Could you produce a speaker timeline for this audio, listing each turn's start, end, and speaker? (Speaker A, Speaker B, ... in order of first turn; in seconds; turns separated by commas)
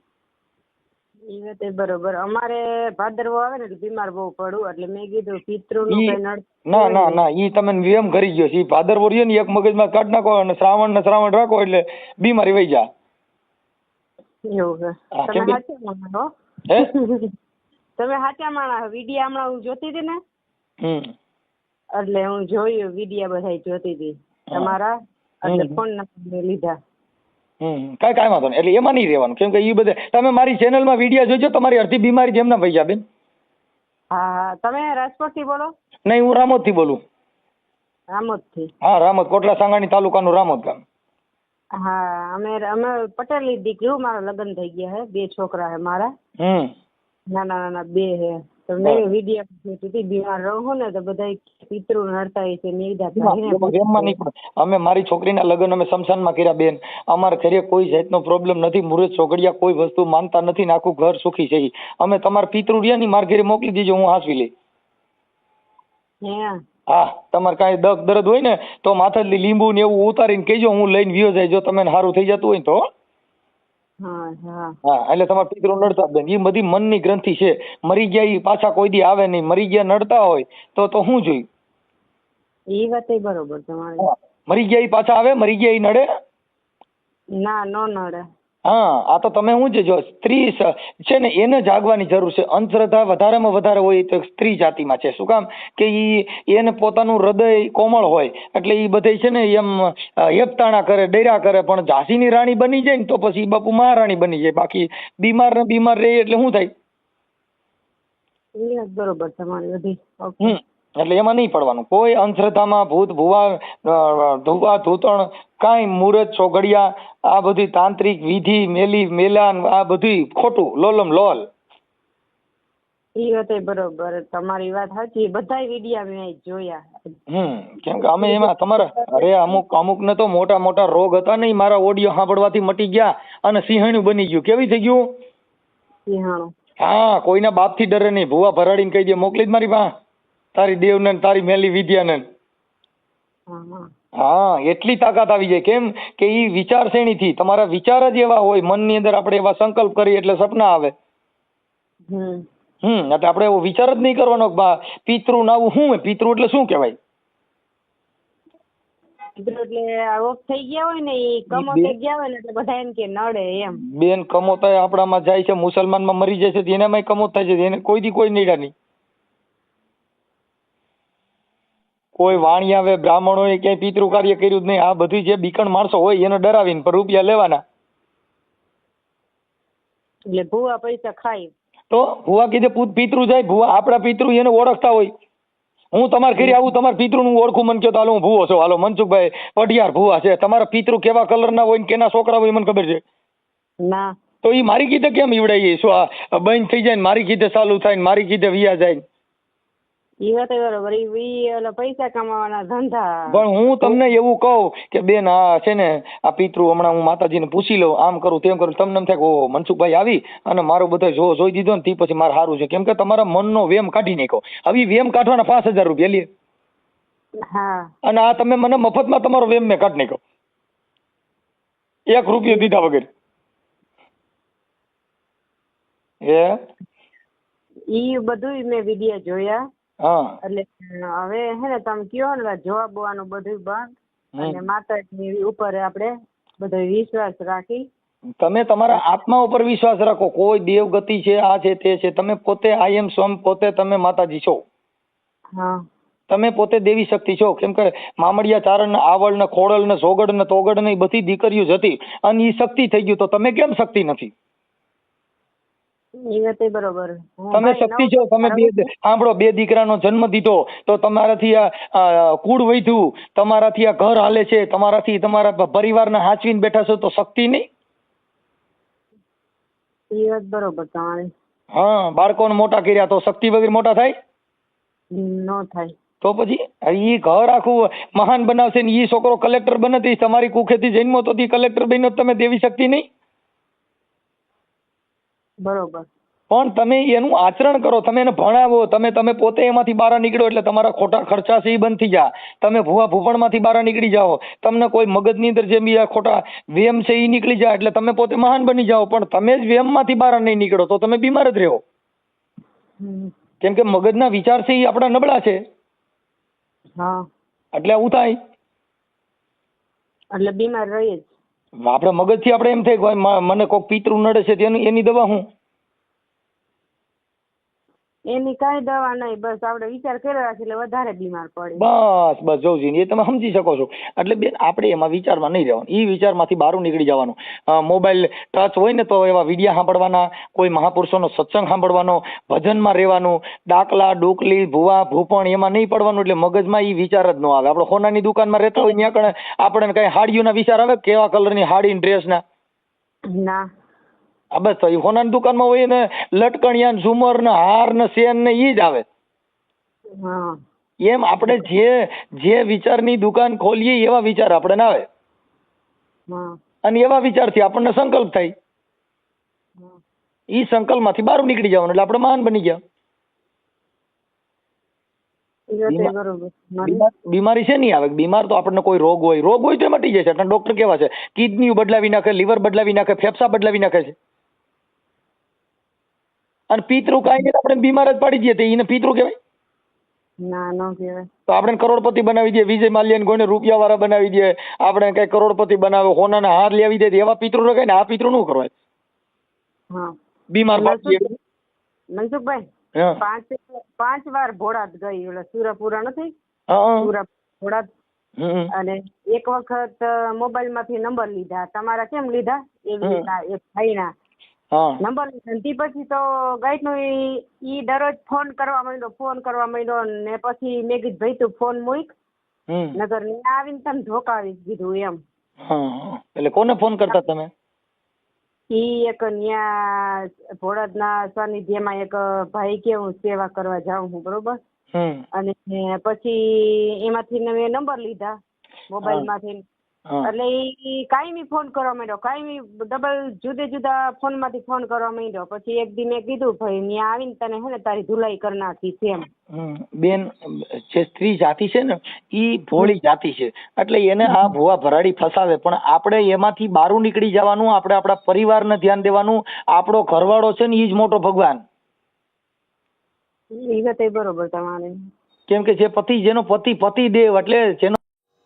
Speaker A: 1.3-7.2, Speaker B: 5.9-12.8, Speaker A: 14.5-16.3, Speaker B: 15.2-15.6, Speaker A: 16.9-17.3, Speaker A: 18.0-20.2, Speaker B: 20.8-21.1, Speaker A: 22.0-26.8, Speaker B: 25.5-25.8, Speaker B: 27.6-33.0, Speaker A: 34.1-35.7, Speaker B: 36.1-37.0, Speaker A: 38.1-38.7, Speaker B: 38.8-40.8, Speaker A: 41.8-46.1, Speaker B: 46.4-46.7, Speaker A: 47.3-54.1, Speaker B: 53.2-64.5, Speaker A: 66.2-66.6, Speaker B: 66.9-72.8, Speaker A: 74.0-74.8, Speaker B: 74.8-81.5, Speaker A: 82.7-84.1, Speaker B: 84.0-86.0, Speaker A: 87.4-88.2, Speaker B: 88.7-106.7, Speaker A: 108.6-110.6, Speaker B: 110.4-121.4, Speaker A: 123.2-127.1, Speaker B: 127.3-135.1, Speaker A: 128.2-129.5, Speaker A: 136.1-136.5, Speaker B: 136.8-139.9, Speaker B: 140.6-142.2, Speaker A: 143.5-143.9, Speaker B: 144.2-150.9, Speaker A: 152.1-152.4, Speaker B: 152.8-157.0, Speaker A: 159.4-163.8, Speaker B: 161.5-161.9, Speaker B: 163.9-168.7, Speaker B: 172.2-177.6, Speaker A: 180.3-181.5, Speaker B: 181.9-185.1, Speaker B: 185.9-193.0, Speaker A: 193.9-194.1, Speaker B: 194.4-199.0, Speaker A: 200.2-204.0, Speaker B: 203.3-216.3, Speaker A: 217.5-217.9, Speaker B: 218.0-220.2, Speaker B: 222.1-223.1, Speaker B: 226.2-226.6, Speaker A: 227.9-229.6, Speaker B: 230.0-230.4, Speaker A: 230.4-237.9, Speaker B: 238.4-244.6, Speaker B: 246.3-254.3, Speaker A: 256.2-258.9, Speaker B: 257.6-267.6, Speaker A: 270.1-271.3, Speaker B: 271.7-274.1, Speaker A: 275.1-275.9, Speaker B: 276.2-283.1, Speaker A: 285.6-286.1, Speaker B: 286.5-301.8, Speaker A: 303.0-303.3, Speaker B: 303.6-305.6, Speaker B: 307.7-308.3, Speaker A: 310.3-311.3, Speaker B: 311.8-315.4, Speaker A: 318.3-321.9, Speaker B: 321.8-342.4, Speaker A: 343.4-343.6, Speaker B: 344.5-349.1, Speaker A: 350.2-350.6, Speaker B: 351.0-355.1, Speaker A: 356.3-356.6, Speaker B: 356.9-358.5, Speaker B: 360.5-362.8, Speaker A: 365.7-367.0, Speaker B: 365.9-366.1, Speaker B: 366.8-374.1, Speaker B: 376.7-379.3, Speaker A: 380.4-381.3, Speaker B: 381.5-388.7, Speaker B: 390.5-391.3, Speaker A: 390.7-391.3, Speaker A: 392.1-392.6, Speaker A: 393.2-396.3, Speaker B: 396.7-397.1, Speaker A: 397.0-397.9, Speaker B: 398.4-398.7, Speaker A: 398.7-404.1, Speaker B: 404.7-405.0, Speaker A: 405.0-412.1, Speaker B: 412.7-412.9, Speaker A: 413.0-415.2, Speaker B: 415.6-417.5, Speaker A: 418.7-424.6, Speaker B: 424.9-425.2, Speaker A: 425.4-428.4, Speaker A: 428.9-429.6, Speaker A: 430.2-439.3, Speaker B: 439.5-451.6, Speaker A: 453.5-455.1, Speaker B: 455.5-458.0